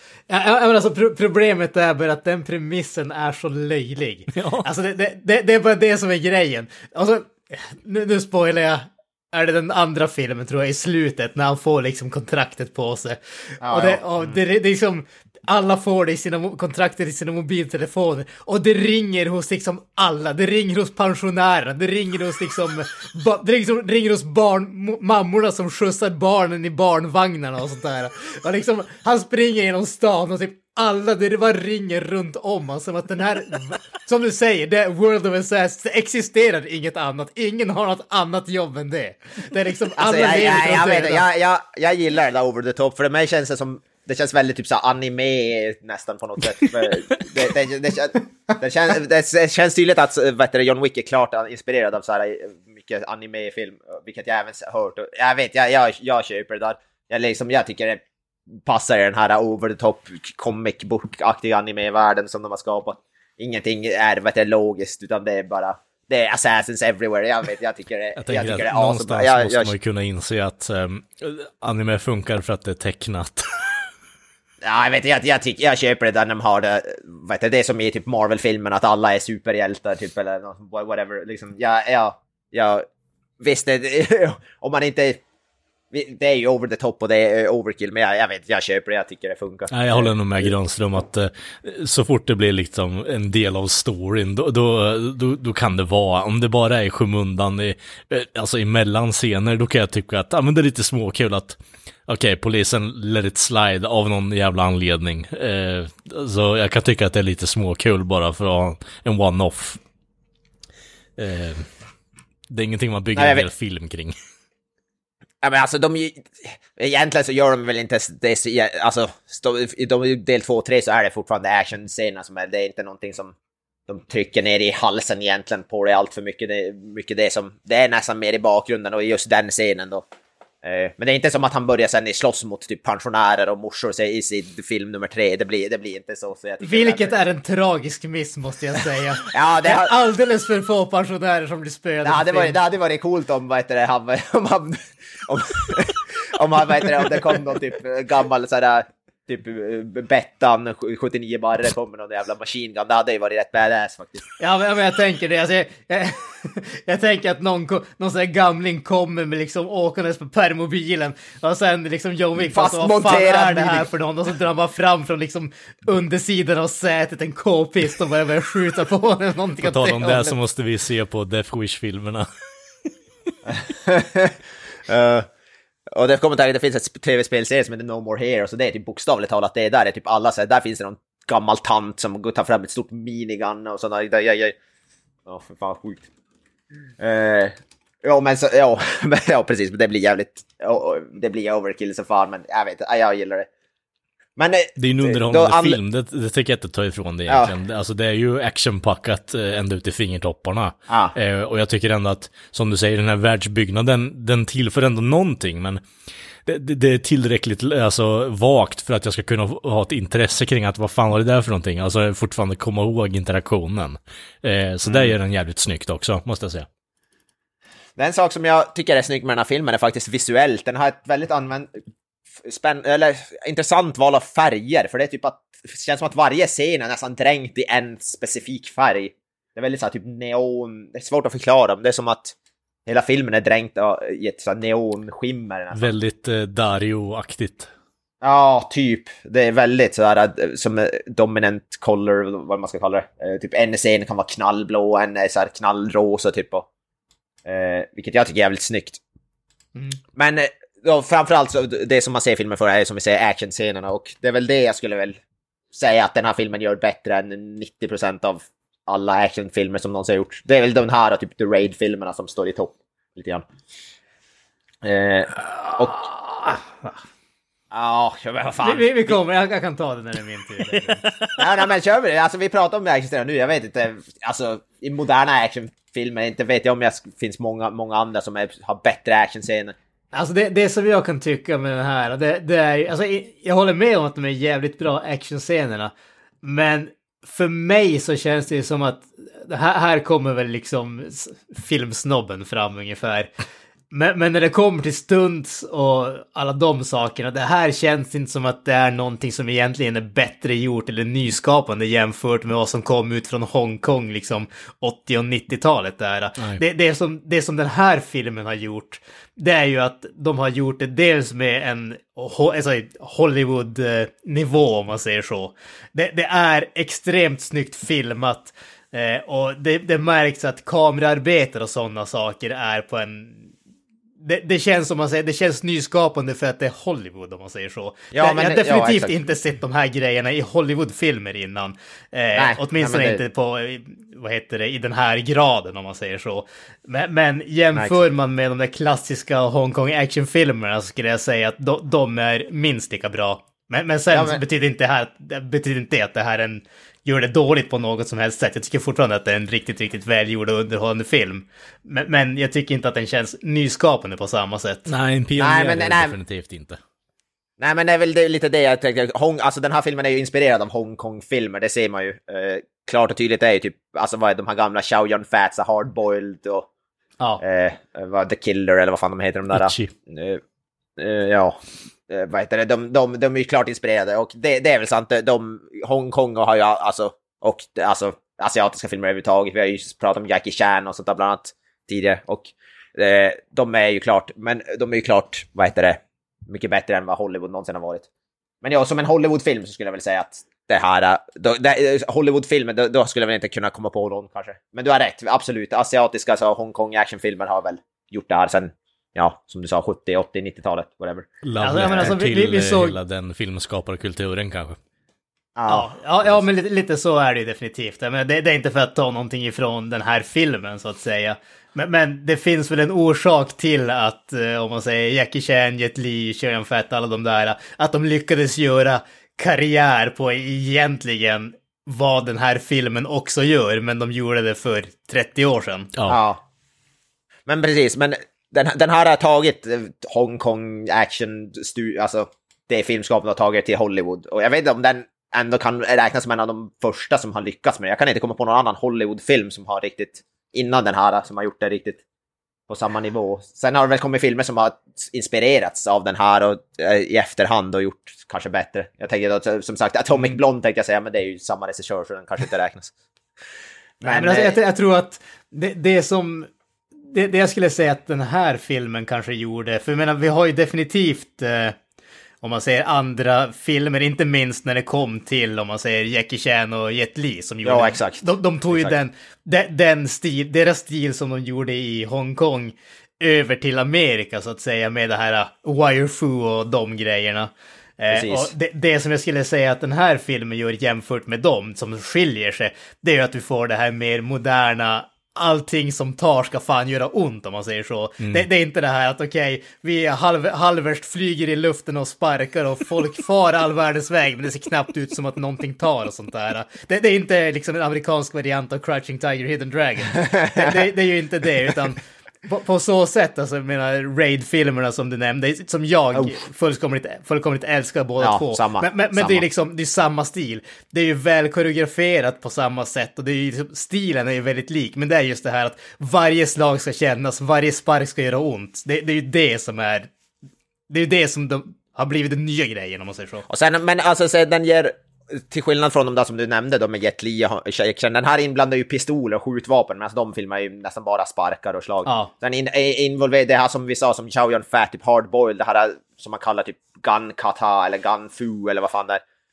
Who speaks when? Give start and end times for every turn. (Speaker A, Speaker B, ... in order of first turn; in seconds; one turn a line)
Speaker A: 0.3-41.2
Speaker B: 4.3-4.7
Speaker C: 13.6-14.4
Speaker C: 40.0-58.0
Speaker C: 58.5-69.7
Speaker B: 68.2-73.8
Speaker C: 74.6-82.9
Speaker C: 83.4-85.2
Speaker C: 85.9-90.5
Speaker B: 89.7-109.8
Speaker B: 111.2-111.7
Speaker B: 112.5-114.2
Speaker C: 113.2-113.5
Speaker C: 115.4-123.3
Speaker C: 123.9-130.0
Speaker C: 130.6-137.2
Speaker A: 136.6-142.6
Speaker C: 139.3-139.9
Speaker C: 142.0-154.3
Speaker A: 154.4-170.3
Speaker C: 162.4-163.9
Speaker B: 169.6-172.3
Speaker C: 173.5-175.3
Speaker C: 175.9-184.6
Speaker C: 185.3-186.1
Speaker C: 187.0-193.5
Speaker C: 194.4-195.8
Speaker B: 194.8-205.8
Speaker C: 197.3-197.6
Speaker C: 200.9-201.2
Speaker B: 206.5-216.7
Speaker C: 214.8-215.2
Speaker C: 218.0-221.8
Speaker C: 222.4-232.3
Speaker C: 232.9-235.9
Speaker B: 235.8-237.7
Speaker C: 238.2-246.7
Speaker C: 247.4-249.0
Speaker C: 250.2-255.2
Speaker C: 255.7-263.4
Speaker C: 264.8-266.1
Speaker C: 267.7-269.2
Speaker A: 268.6-271.1
Speaker C: 271.4-279.8
Speaker A: 280.1-285.9
Speaker A: 286.4-293.3
Speaker A: 293.9-323.5
Speaker A: 324.2-354.9
Speaker C: 328.1-329.2
Speaker C: 332.4-333.2
Speaker C: 344.1-344.4
Speaker B: 354.9-356.8
Speaker C: 355.4-356.2
Speaker C: 357.6-366.7
Speaker C: 367.4-370.4
Speaker B: 369.5-369.9
Speaker C: 371.0-388.1
Speaker C: 388.6-401.3
Speaker B: 401.4-404.8
Speaker A: 401.6-403.0
Speaker C: 401.8-402.1
Speaker C: 405.6-405.9
Speaker A: 405.7-425.9
Speaker C: 426.1-426.4
Speaker C: 427.5-442.0
Speaker C: 442.7-452.9
Speaker C: 454.0-454.6
Speaker A: 454.0-456.5
Speaker A: 457.1-461.8
Speaker A: 462.4-520.1
Speaker C: 467.6-469.0
Speaker C: 478.1-478.5
Speaker B: 488.2-488.5
Speaker C: 500.2-500.9
Speaker C: 506.1-506.4
Speaker C: 508.2-509.4
Speaker A: 520.9-523.5
Speaker C: 523.5-539.2
Speaker A: 532.1-532.3